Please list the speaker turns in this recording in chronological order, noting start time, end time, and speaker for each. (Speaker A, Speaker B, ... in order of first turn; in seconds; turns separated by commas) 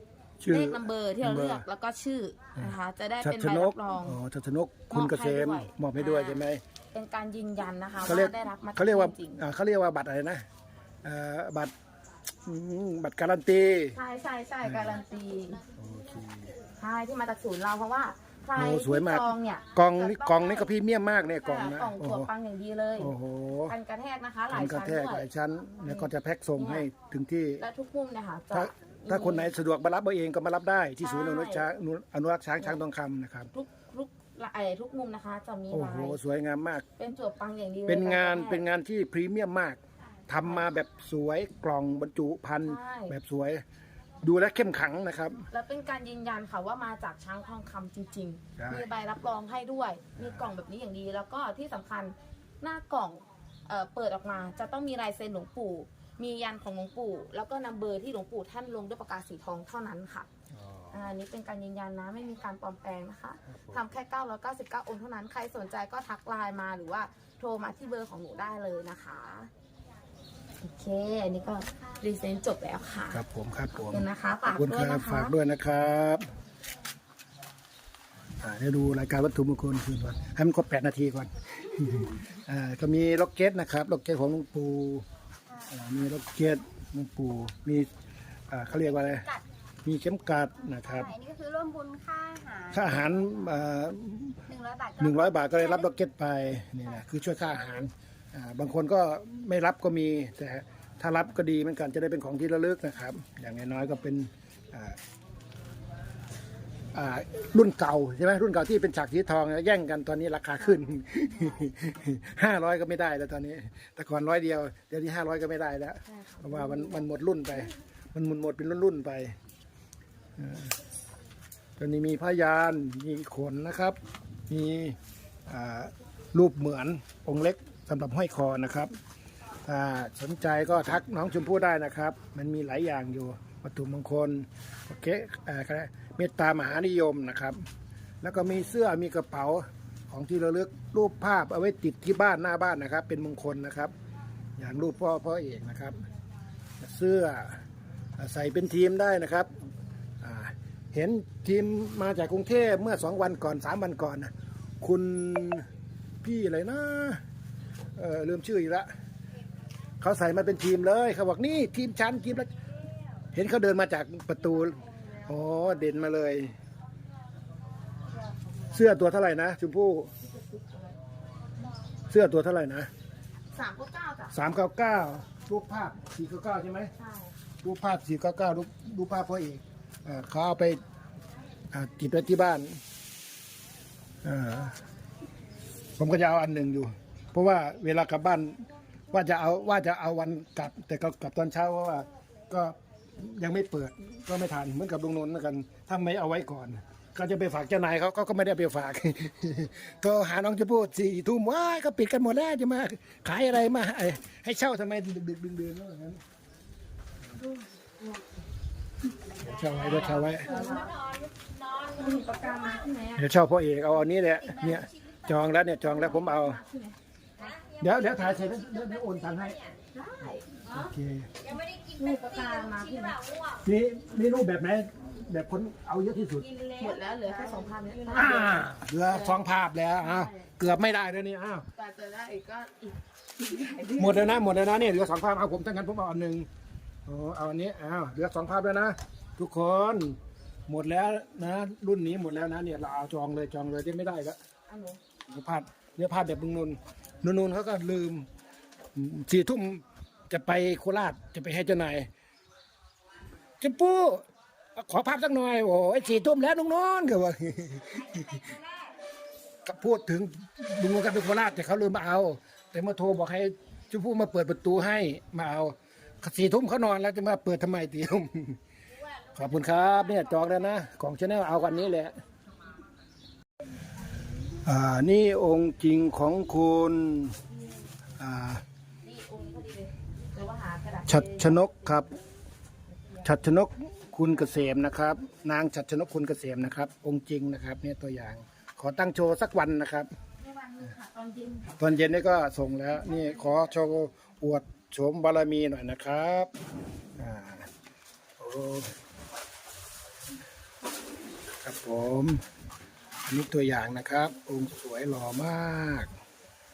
Speaker A: 0.4-1.6, Speaker B: 0.5-4.2, Speaker A: 2.5-6.6, Speaker B: 4.9-9.4, Speaker A: 8.0-10.4, Speaker A: 11.0-11.7, Speaker A: 12.4-14.0, Speaker B: 13.9-15.6, Speaker A: 14.6-15.0, Speaker A: 15.8-16.6, Speaker B: 16.8-20.7, Speaker A: 18.6-22.3, Speaker B: 21.4-23.1, Speaker A: 23.0-23.8, Speaker B: 23.7-25.3, Speaker A: 24.5-27.6, Speaker B: 25.8-26.9, Speaker B: 27.6-29.5, Speaker A: 28.5-33.5, Speaker B: 31.0-31.7, Speaker B: 33.5-36.2, Speaker A: 35.7-36.9, Speaker B: 37.0-38.6, Speaker A: 37.9-43.6, Speaker B: 40.4-40.7, Speaker B: 42.6-43.1, Speaker A: 44.2-45.5, Speaker B: 45.5-60.3, Speaker A: 48.6-48.9, Speaker A: 50.2-50.4, Speaker A: 60.5-61.1, Speaker B: 60.9-69.5, Speaker A: 63.5-63.9, Speaker B: 70.6-73.2, Speaker A: 73.1-76.2, Speaker B: 73.7-75.3, Speaker A: 78.4-85.0, Speaker A: 85.7-87.9, Speaker A: 88.5-89.3, Speaker A: 89.8-91.2, Speaker C: 91.1-92.8, Speaker A: 92.7-105.0, Speaker C: 94.5-95.5, Speaker A: 106.9-119.4, Speaker B: 116.1-117.0, Speaker A: 120.4-120.7, Speaker A: 121.8-124.0, Speaker A: 124.5-128.9, Speaker A: 129.7-137.6, Speaker A: 138.2-143.9, Speaker A: 144.6-146.0, Speaker A: 146.8-147.6, Speaker A: 148.2-149.5, Speaker A: 150.2-155.7, Speaker A: 156.2-157.2, Speaker A: 157.9-158.9, Speaker A: 160.0-162.5, Speaker A: 163.3-166.5, Speaker B: 168.2-168.7, Speaker A: 168.7-170.1, Speaker B: 170.2-170.9, Speaker A: 172.1-172.9, Speaker B: 173.5-174.3, Speaker A: 174.3-176.9, Speaker B: 177.0-177.3, Speaker A: 177.6-180.8, Speaker A: 181.7-182.8, Speaker A: 184.2-184.8, Speaker A: 186.0-206.2, Speaker B: 207.3-208.2, Speaker A: 209.4-210.5, Speaker B: 209.8-211.0, Speaker C: 210.5-211.9, Speaker B: 211.9-213.3, Speaker A: 213.2-216.6, Speaker B: 215.8-217.5, Speaker C: 217.5-217.9, Speaker A: 217.8-219.6, Speaker C: 219.1-219.7, Speaker B: 219.9-220.9, Speaker A: 220.7-221.3, Speaker C: 221.4-223.6, Speaker B: 221.9-223.2, Speaker A: 223.6-226.5, Speaker C: 226.4-226.9, Speaker B: 226.7-229.4, Speaker A: 228.1-231.7, Speaker B: 230.0-230.5, Speaker B: 231.8-234.4, Speaker A: 234.0-236.5, Speaker A: 237.1-244.4, Speaker B: 244.7-245.0, Speaker A: 245.3-248.3, Speaker A: 248.9-252.1, Speaker A: 253.6-254.2, Speaker A: 254.8-258.6, Speaker A: 259.6-268.6, Speaker A: 269.3-272.2, Speaker A: 274.6-277.4, Speaker A: 278.2-278.6, Speaker B: 279.0-281.7, Speaker A: 281.1-282.1, Speaker B: 282.9-283.2, Speaker A: 283.2-290.1, Speaker B: 290.4-291.8, Speaker A: 291.8-296.5, Speaker A: 297.2-297.7, Speaker A: 298.4-298.9, Speaker A: 301.6-302.4, Speaker A: 303.3-306.1